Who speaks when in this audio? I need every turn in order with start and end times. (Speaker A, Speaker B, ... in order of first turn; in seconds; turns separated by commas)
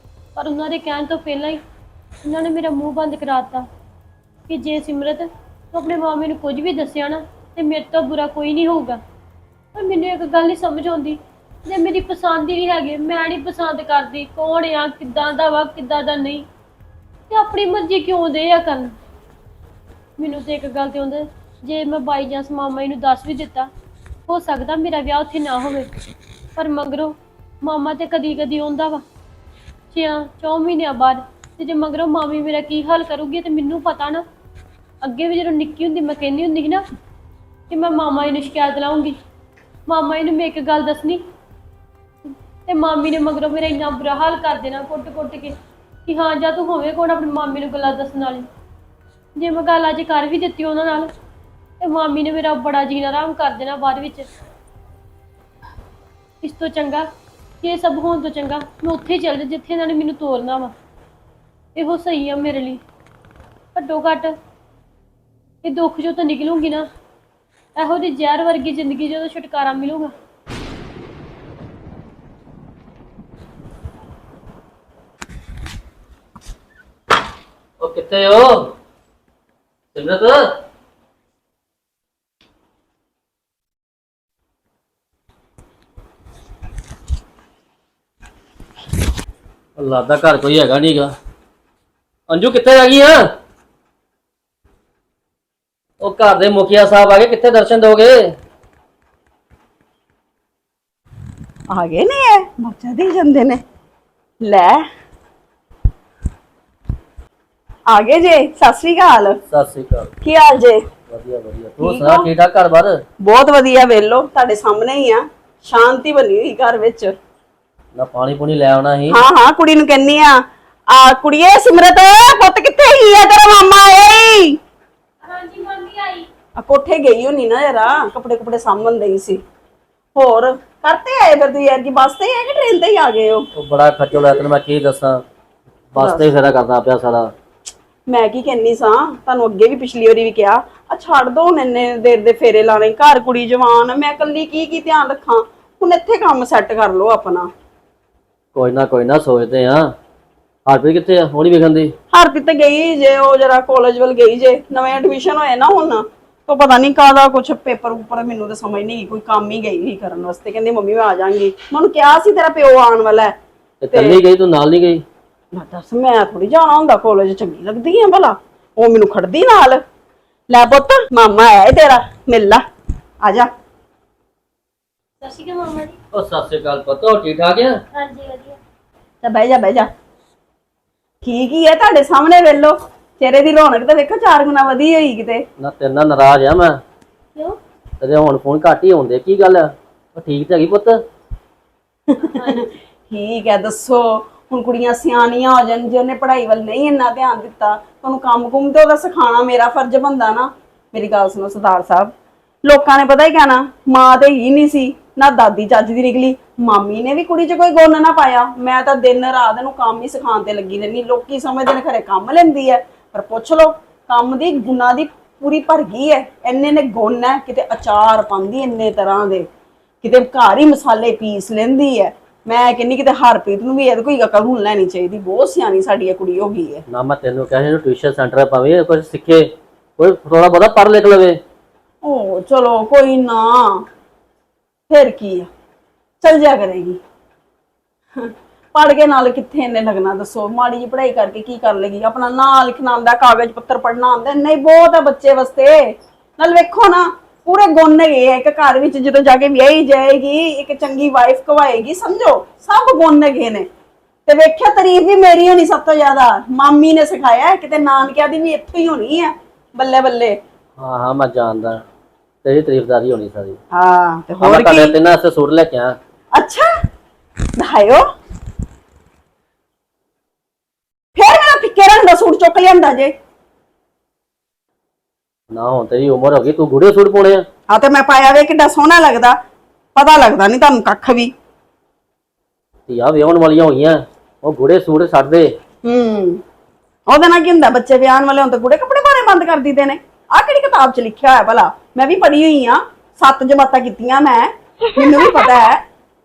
Speaker A: 0.4-1.6, Speaker A: 2.2-3.7, Speaker A: 4.5-9.0, Speaker A: 9.7-16.5, Speaker A: 17.3-18.9, Speaker A: 20.2-23.7, Speaker A: 24.3-25.9, Speaker A: 26.6-29.1, Speaker A: 29.9-34.2, Speaker A: 35.0-36.9, Speaker A: 37.7-39.2, Speaker A: 39.9-41.2, Speaker A: 42.7-48.5, Speaker A: 49.4-51.1, Speaker A: 51.8-54.3, Speaker A: 56.4-57.1, Speaker A: 57.6-60.7, Speaker A: 61.8-62.8, Speaker A: 63.7-64.4, Speaker A: 65.6-66.9, Speaker A: 67.8-70.1, Speaker B: 77.8-78.8, Speaker B: 79.9-80.6, Speaker B: 89.8-91.1, Speaker B: 92.3-93.3, Speaker B: 96.0-98.3, Speaker C: 101.7-103.6, Speaker C: 104.4-104.8, Speaker C: 107.9-109.4, Speaker B: 109.5-110.1, Speaker C: 110.2-110.9, Speaker B: 111.1-113.0, Speaker C: 111.8-112.3, Speaker C: 113.2-117.2, Speaker B: 118.0-119.2, Speaker C: 119.1-124.6, Speaker A: 125.2-126.3, Speaker C: 126.6-129.4, Speaker C: 130.2-133.5, Speaker B: 133.6-135.2, Speaker B: 135.9-137.3, Speaker C: 136.0-136.3, Speaker C: 138.1-147.5, Speaker B: 148.6-149.9, Speaker B: 150.7-151.9, Speaker C: 152.1-163.3, Speaker B: 163.8-165.0, Speaker C: 163.9-164.2, Speaker C: 165.5-169.8, Speaker C: 170.5-172.7, Speaker C: 173.2-173.5, Speaker A: 175.2-176.0, Speaker B: 176.1-177.8, Speaker A: 177.9-178.6, Speaker C: 179.2-179.9, Speaker C: 181.2-185.5, Speaker B: 185.6-186.8, Speaker B: 188.0-191.0, Speaker C: 192.1-202.1, Speaker A: 192.2-192.7, Speaker C: 202.7-219.5, Speaker C: 220.0-226.8, Speaker B: 226.9-231.4, Speaker C: 232.0-233.8, Speaker C: 234.9-235.5, Speaker C: 236.2-237.0, Speaker C: 238.2-253.7, Speaker C: 254.3-260.4, Speaker B: 260.8-261.8, Speaker B: 262.4-263.6, Speaker C: 263.7-265.0, Speaker B: 264.4-266.0, Speaker C: 266.3-266.7, Speaker C: 267.6-268.1, Speaker C: 271.1-273.1, Speaker B: 275.5-277.4, Speaker C: 277.7-279.4, Speaker C: 279.9-281.3, Speaker B: 282.9-285.5, Speaker C: 285.9-286.4, Speaker C: 287.1-295.8